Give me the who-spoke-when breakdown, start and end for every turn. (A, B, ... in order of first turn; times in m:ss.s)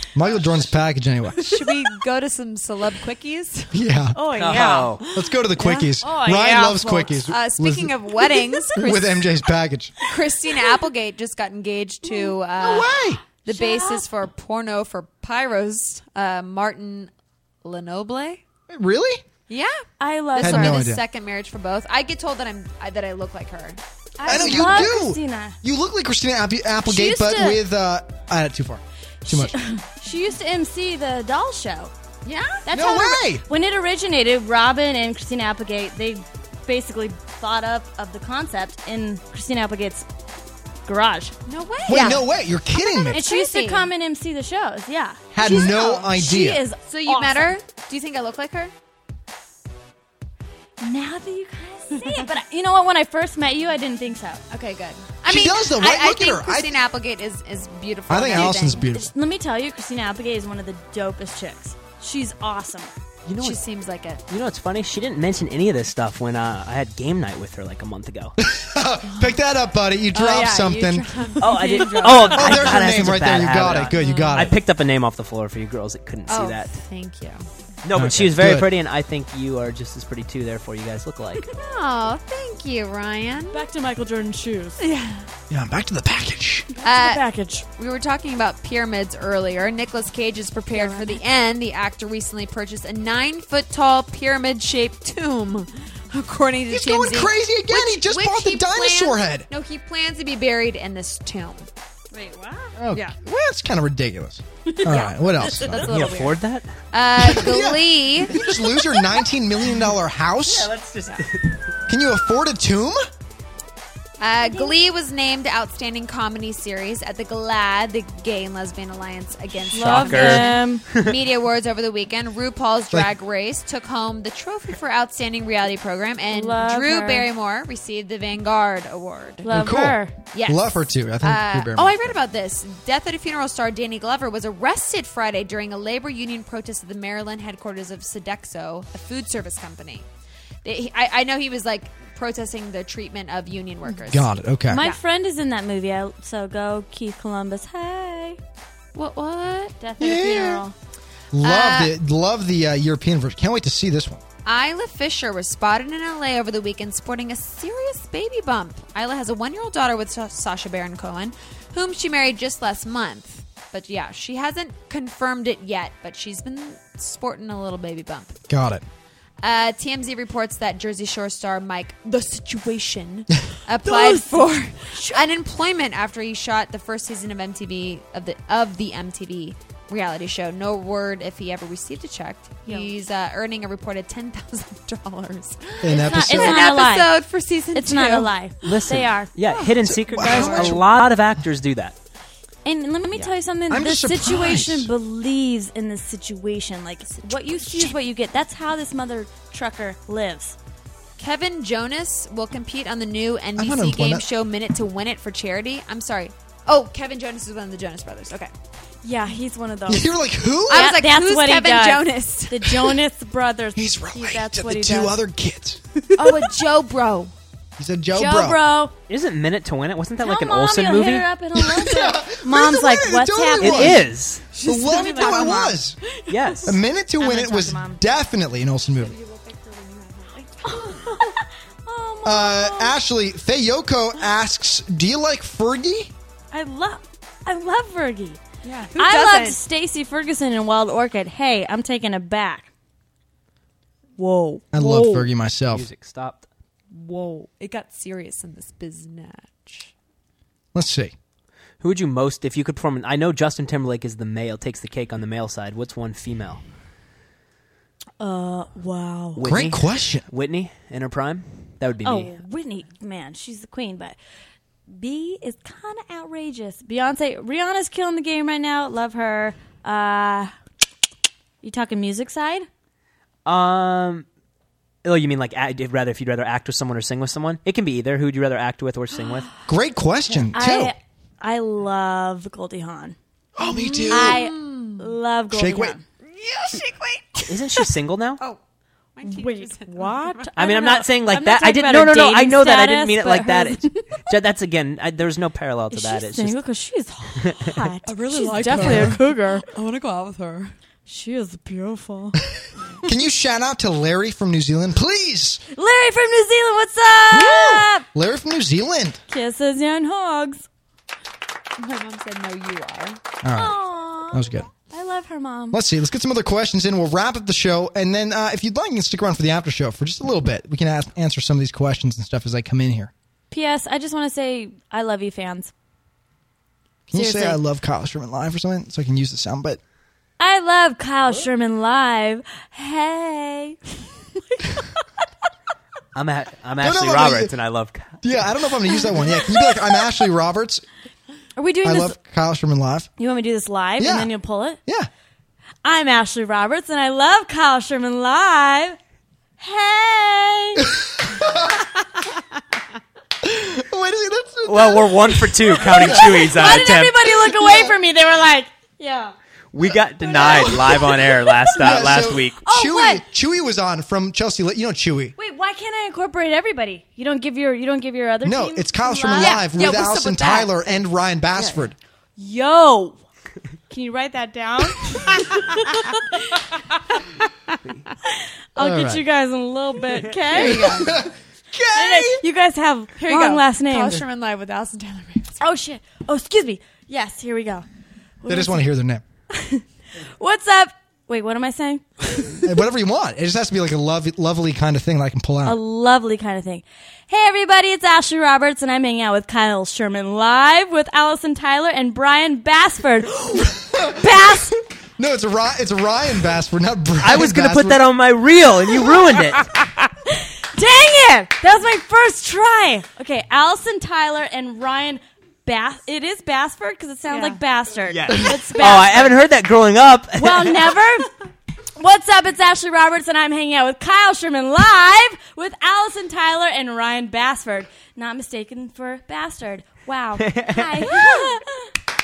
0:00.1-0:01.5 A
0:01.4-0:03.7 B
0:03.7-0:04.2 A
0:04.1-0:07.2 C
0:04.4-0:05.0 D
0:05.1-0:08.0 A
0:07.2-0:09.4 B
0:08.7-0:10.0 A
0:10.0-0:17.1 B
0:12.6-0:13.2 A
0:13.5-0:14.1 C
0:17.6-0:18.4 B
0:18.7-0:19.2 A
0:19.5-0:19.8 B
0:20.0-0:20.8 C
0:20.3-0:24.9 B
0:20.4-0:21.0 A
0:24.2-0:25.6 C
0:24.2-0:29.6 A
0:26.8-0:27.6 C
0:29.2-0:31.9 C
0:32.2-0:32.7 B
0:32.7-0:40.1 C
0:32.7-0:33.4 A
0:40.9-0:41.4 C
0:41.5-0:42.3 B
0:41.9-0:43.2 A
0:43.0-0:43.9 B
0:43.1-0:47.6 C
0:45.3-0:46.6 A
0:46.8-0:48.7 B
0:50.8-0:54.4 C
0:54.5-0:58.9 B
0:55.3-0:56.8 A
0:58.1-0:59.1 A
0:58.9-1:02.9 C
1:03.3-1:03.6 D
1:03.4-1:04.2 B
1:04.3-1:08.4 D
1:08.4-1:11.2 A
1:10.1-1:12.8 B
1:11.4-1:16.7 D
1:12.3-1:14.6 A
1:14.0-1:14.4 B
1:16.3-1:17.4 B
1:17.8-1:21.5 D
1:17.9-1:18.7 A
1:21.5-1:23.7 B
1:23.5-1:24.8 C
1:24.8-1:25.3 B
1:25.5-1:26.7 A
1:26.8-1:27.6 C
1:26.8-1:27.2 B
1:27.8-1:41.7 B
1:30.7-1:31.2 C
1:36.7-1:39.5 A
1:42.1-1:42.8 C
1:42.8-1:45.9 A
1:44.7-1:45.8 C
1:44.9-1:48.4 B
1:45.9-1:46.7 D
1:47.2-1:50.7 A
1:50.5-1:51.6 D
1:51.9-1:53.0 A
1:54.2-2:09.5 B
1:59.7-2:00.8 C
1:59.7-2:01.2 D
2:06.3-2:07.3 C
2:09.4-2:10.1 C
2:09.5-2:12.2 A
2:10.3-2:20.1 B
2:20.6-2:25.0 B
2:24.0-2:24.8 A
2:24.7-2:28.4 C
2:29.0-2:29.8 B
2:29.8-2:30.7 C
2:30.0-2:30.6 A
2:31.3-2:34.2 A
2:31.4-2:31.9 B
2:34.5-2:48.4 B
2:48.5-2:48.8 A
2:49.4-3:08.3 B
2:53.8-2:55.3 C
3:02.7-3:03.0 C
3:05.8-3:06.6 A
3:05.9-3:09.3 C
3:08.6-3:12.0 D
3:09.4-3:10.4 B
3:09.8-3:10.8 A
3:10.2-3:10.8 C
3:12.6-3:20.6 C
3:13.7-3:14.9 A
3:17.0-3:18.0 B
3:21.2-3:28.5 B
3:23.6-3:24.3 A
3:29.0-3:30.1 C
3:29.9-3:30.9 A
3:30.7-3:32.9 B
3:30.7-3:35.2 C
3:33.8-3:35.8 A
3:36.2-3:37.3 B
3:37.8-3:38.6 A
3:38.1-3:38.9 C
3:39.1-3:41.3 D
3:40.2-3:43.9 C
3:41.6-3:44.0 A
3:43.6-3:44.5 D
3:44.5-3:46.2 B
3:44.6-3:46.0 A
3:44.8-3:45.8 C
3:46.3-3:46.8 D
3:46.7-3:49.2 A
3:47.2-3:48.0 C
3:48.9-3:51.4 B
3:50.6-3:53.0 C
3:52.2-3:56.1 A
3:56.5-3:58.4 C
3:58.6-3:59.6 B
3:59.0-4:02.7 C
4:04.2-4:05.3 C
4:04.7-4:05.9 A
4:05.7-4:06.5 D
4:06.9-4:09.9 B
4:10.7-4:11.1 A
4:11.8-4:16.6 D
4:18.2-4:19.4 C
4:19.4-4:22.4 D
4:19.4-4:20.3 A
4:22.0-4:24.2 C
4:24.9-4:30.5 C
4:31.6-4:32.7 C
4:33.5-4:34.2 D
4:35.0-4:39.5 D
4:39.7-4:40.9 A
4:40.5-4:43.2 C
4:43.6-4:44.4 A
4:43.6-4:45.2 B
4:44.1-4:46.0 C
4:45.5-4:46.0 A
4:46.2-4:48.6 B
4:47.5-4:48.4 D
4:49.2-4:50.6 B
4:49.2-4:53.9 C
4:50.6-4:56.6 D
4:55.9-4:59.7 C
4:57.4-4:57.7 D
4:58.0-5:00.7 B
5:01.1-5:02.4 C
5:03.0-5:05.6 A
5:05.8-5:08.0 C
5:07.3-5:09.2 A
5:09.3-5:10.6 C
5:11.8-5:13.2 B
5:13.4-5:13.8 A
5:13.5-5:15.8 C
5:14.3-5:14.7 A
5:15.7-5:23.1 A
5:23.5-5:25.7 C
5:27.1-5:29.8 A
5:27.1-5:27.6 C
5:30.4-5:34.0 C
5:34.5-5:34.9 C
5:36.2-5:38.2 D
5:36.8-5:37.5 A
5:38.2-5:40.8 A
5:41.6-5:42.2 C
5:41.8-5:43.1 A
5:43.2-5:44.8 C
5:44.0-5:44.3 A
5:45.8-5:49.0 C
5:49.6-5:50.9 C
5:50.9-5:51.6 A
5:53.4-5:57.9 A
5:54.7-5:57.2 D
5:56.0-5:59.3 C
5:59.7-6:02.6 D
6:00.3-6:01.1 C
6:00.4-6:00.7 A
6:01.8-6:05.3 A
6:02.6-6:03.2 C
6:05.4-6:10.0 C
6:08.4-6:11.9 A
6:09.3-6:10.8 B
6:11.6-6:11.9 B
6:12.4-6:13.2 C
6:13.9-6:16.0 C
6:18.8-6:21.1 C
6:18.8-6:19.2 A
6:20.4-6:21.2 B
6:20.5-6:22.4 A
6:21.9-6:24.2 C
6:23.2-6:25.6 B
6:25.6-6:27.9 C
6:28.4-6:28.9 C
6:28.5-6:29.2 A
6:29.5-6:32.6 C
6:32.6-6:35.8 A
6:35.6-6:44.8 C
6:43.7-6:44.6 A
6:45.2-6:48.0 A
6:47.2-6:49.6 D
6:50.3-6:59.3 C
6:57.3-6:57.6 B
6:58.1-7:01.0 D
7:00.4-7:01.3 C
7:02.0-7:11.6 C
7:10.4-7:11.1 D